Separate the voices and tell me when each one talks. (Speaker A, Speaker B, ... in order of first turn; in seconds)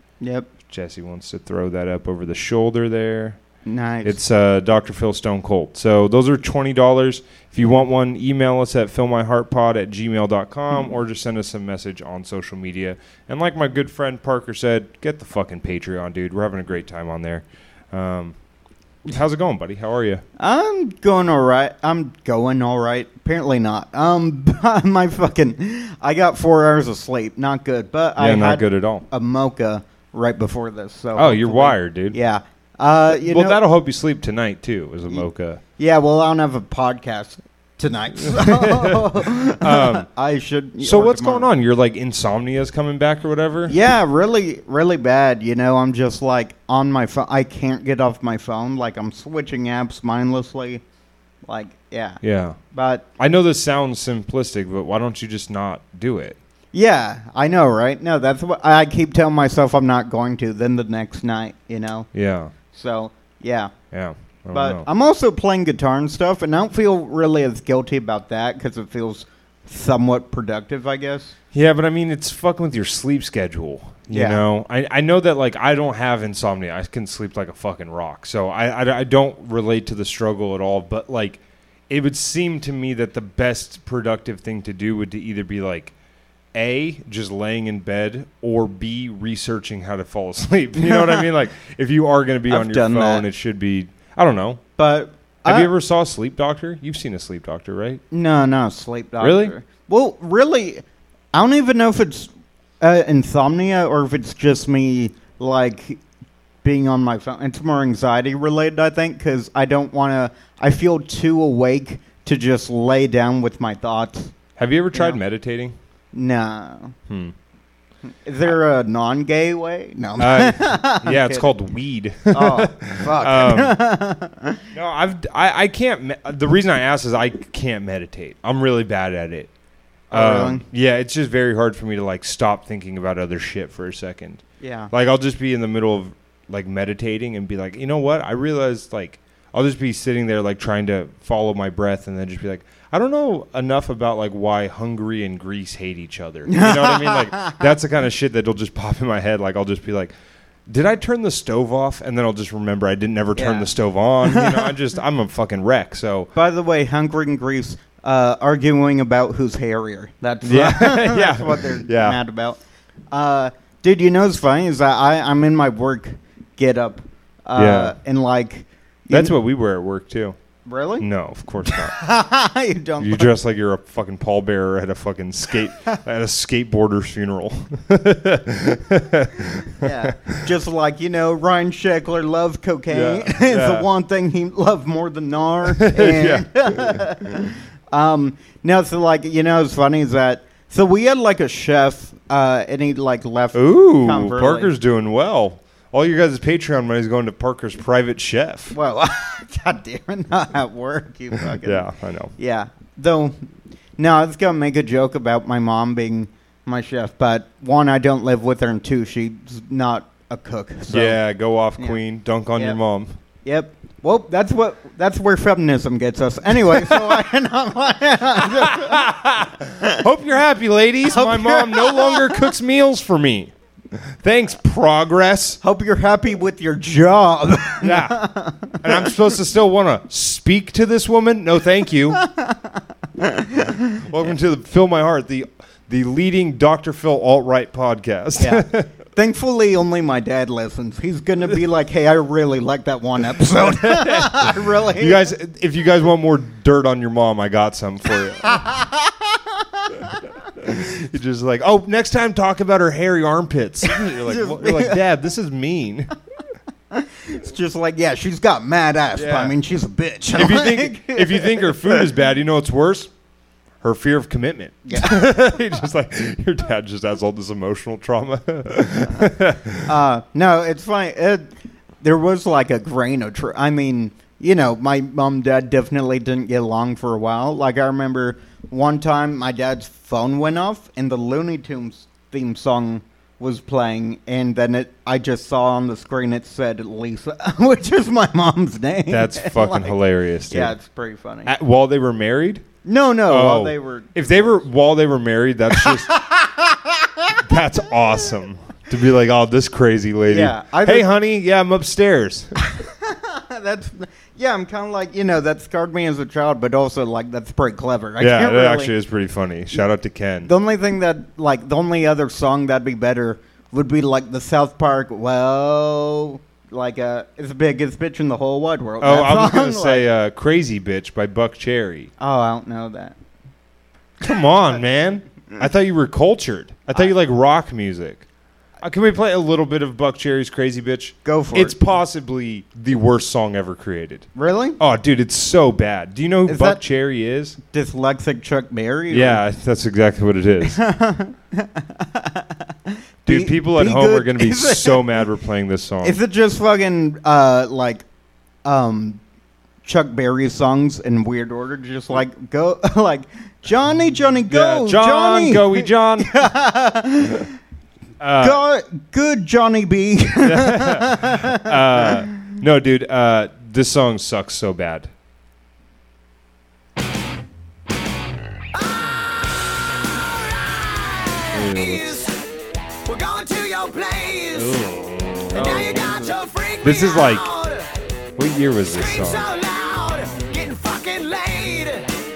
Speaker A: 0.2-0.5, 3.6-4.2, 20.4-33.6, 35.8-41.5, 43.7-50.8, 51.5-52.2, 52.7-53.0, 56.7-62.1, 62.7-63.7, 64.5-71.3, 74.1-74.4, 90.8-91.3, 92.5-93.2, 94.8-95.7, 98.1-106.0, 106.6-114.3, 114.9-115.2, 116.1-116.9, 118.1-121.5, 122.3-124.6, 130.1-130.6, 134.6-134.9, 146.5-147.6, 153.3-153.7, 154.2-154.7, 156.3-162.6, 163.1-169.3, 170.7-171.1, 171.7-173.3, 179.7-194.7, 198.7-201.8, 202.4-203.3, 204.0-211.2, 213.4-219.2, 221.1-222.5, 225.6-229.1, 232.2-232.6, 233.2-234.0, 238.4-245.3, 248.4-250.2, 253.9-255.0, 256.9-262.1, 264.9-265.3, 269.8-271.5, 272.0-289.9, 290.5-291.5, 292.8-294.6, 295.7-297.4, 300.3-301.1, 302.8-308.9, 310.4-320.1, 322.2-323.1, 331.2-331.8, 334.3-334.8, 336.4-336.8, 337.7-339.4, 340.6-345.1, 346.0-348.0, 348.6-349.2, 349.8-357.5, 358.4-362.1
Speaker B: 0.7-3.4, 4.0-18.4, 19.1-20.2, 28.2-29.0, 31.1-32.2, 33.2-35.6, 38.2-40.1, 40.8-43.7, 52.2-52.6, 53.2-56.4, 62.1-62.5, 63.9-64.9, 71.5-85.9, 86.5-94.6, 95.4-98.0, 99.2-99.5, 114.6-115.8, 117.1-117.3, 120.2-123.8, 124.7-129.5, 130.1-150.1, 150.7-156.3, 160.4-162.2, 167.5-167.9, 169.1-170.3, 171.0-172.0, 173.0-180.4, 182.9-183.9, 185.7-187.3, 193.5-198.7, 201.5-202.3, 210.9-213.2, 216.5-217.2, 218.4-225.6, 227.8-228.2, 228.8-232.2, 234.0-238.9, 243.6-248.6, 250.6-256.1, 259.1-259.6, 260.3-263.1, 263.8-269.9, 289.1-290.7, 291.4-292.6, 293.3-296.1, 297.4-302.6, 308.2-310.5, 319.0-322.1, 324.2-328.2, 328.8-334.3, 334.8-337.6, 339.1-340.8, 343.2-346.2, 354.5-356.5, 358.2-358.6, 360.4-365.1, 371.5-372.1, 374.5-377.5, 378.4-379.5
Speaker C: 368.7-372.4, 373.1-374.8, 375.5-377.9, 378.9-382.1